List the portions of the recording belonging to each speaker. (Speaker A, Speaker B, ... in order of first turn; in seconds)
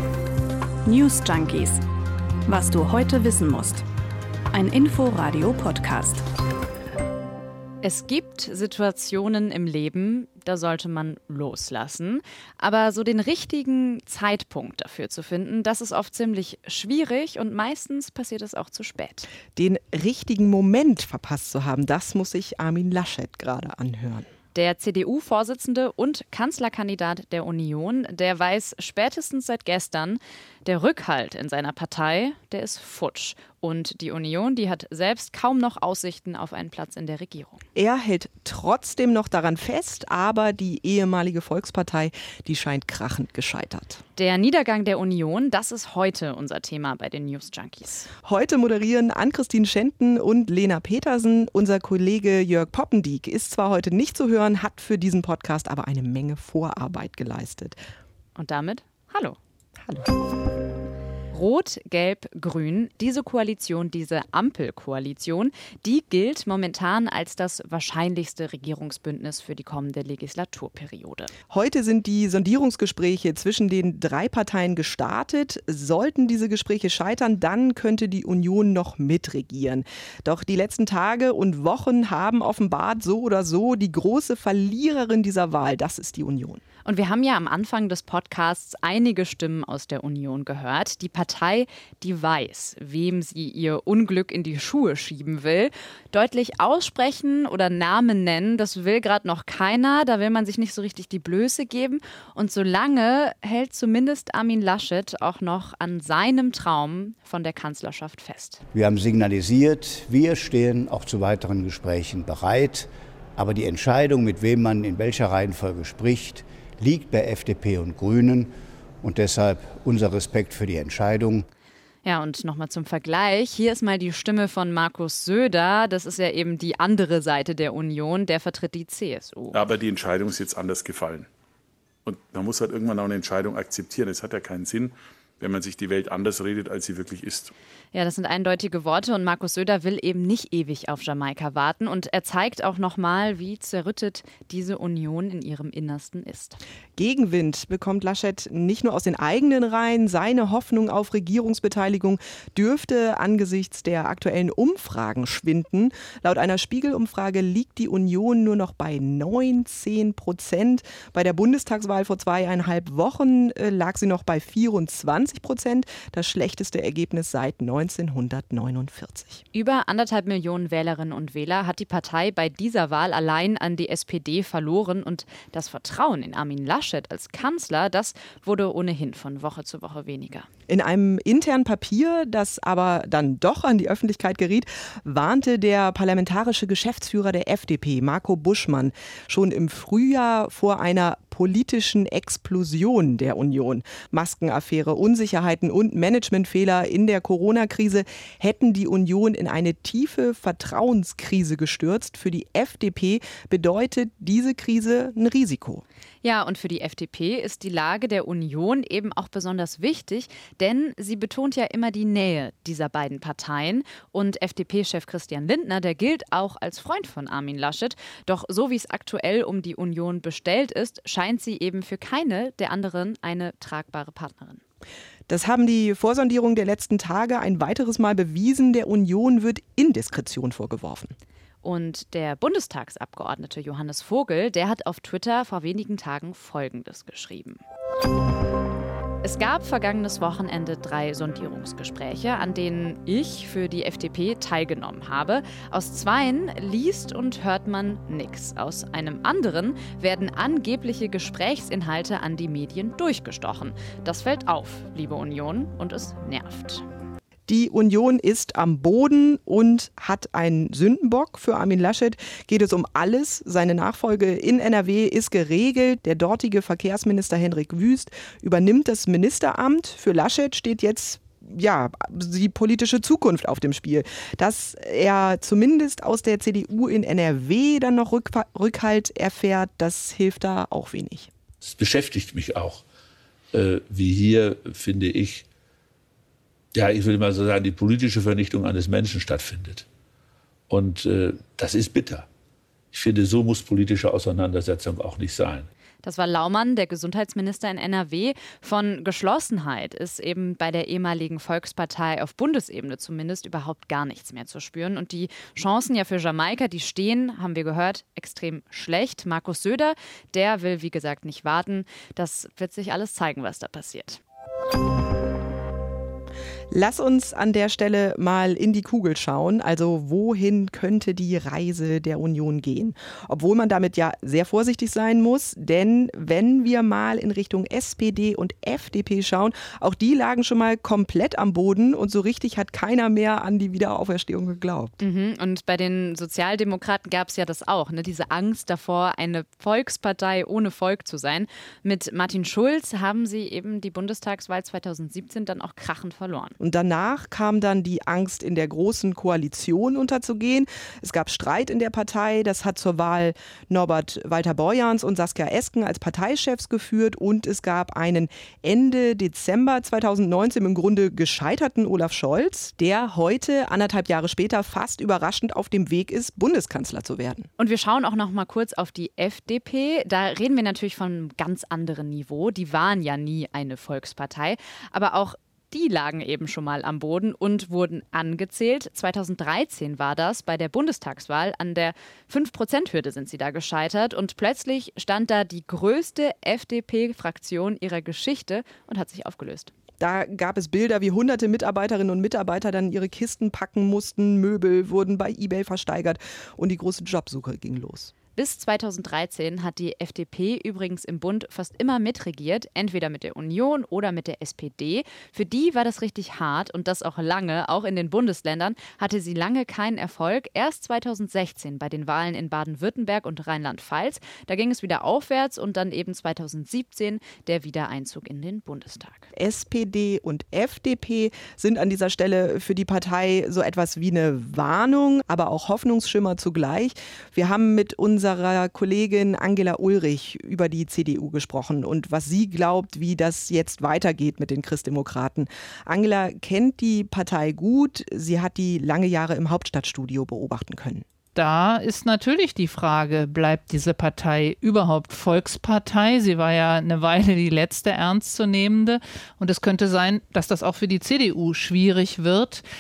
Speaker A: 0.8-1.8, 2.5-3.8, 4.5-6.3
Speaker B: 7.8-19.3, 24.5-37.6, 44.2-48.1, 58.4-59.4, 61.3-71.3, 86.8-108.6, 122.0-129.6, 137.9-146.6, 169.5-180.5, 206.2-224.6, 231.6-237.6, 239.2-256.9, 296.0-314.2, 335.0-346.6, 367.6-389.7, 398.4-419.3
Speaker C: 19.5-24.3, 37.8-44.0, 48.2-57.8, 71.5-86.6, 147.0-169.4, 180.7-205.8, 225.3-231.1, 257.5-281.3, 316.7-335.0, 346.6-367.5, 390.0-398.1, 419.3-441.1
Speaker D: 108.7-118.5, 119.0-121.4
Speaker E: 129.5-131.3, 132.1-137.5
Speaker F: 281.6-282.8, 283.5-285.5, 286.7-289.9, 290.7-292.3, 292.9-295.7
Speaker G: 441.4-452.6